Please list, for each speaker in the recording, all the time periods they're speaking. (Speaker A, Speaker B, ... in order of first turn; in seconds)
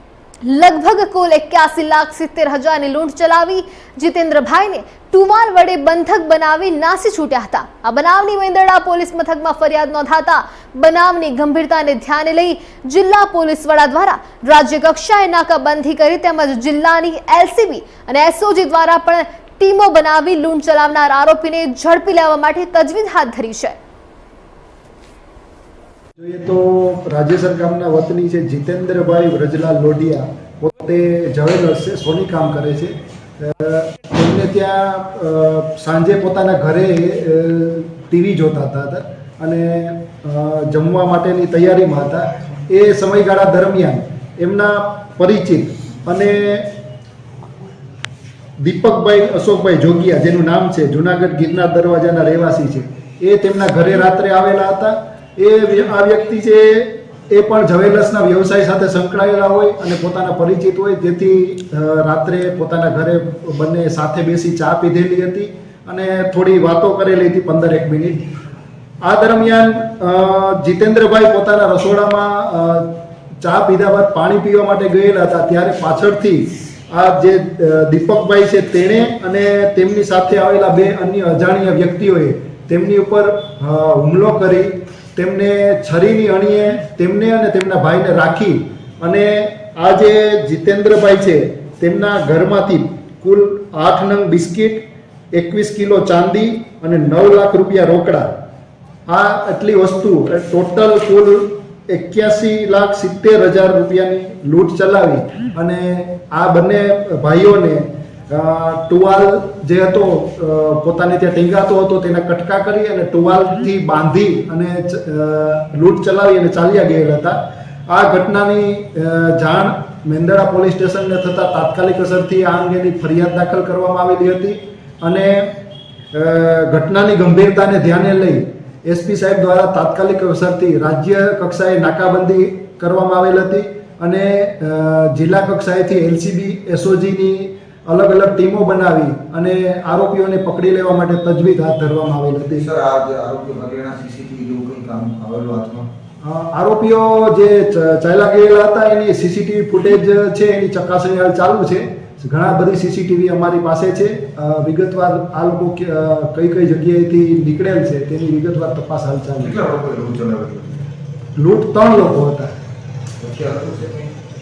Speaker A: 0.4-23.8
Speaker B: 26.2-46.7, 48.6-68.2, 69.0-98.2, 99.1-117.4, 117.9-125.5, 126.1-142.7, 146.2-159.6, 161.4-162.5
Speaker C: 142.6-145.9, 159.4-160.8, 163.2-164.1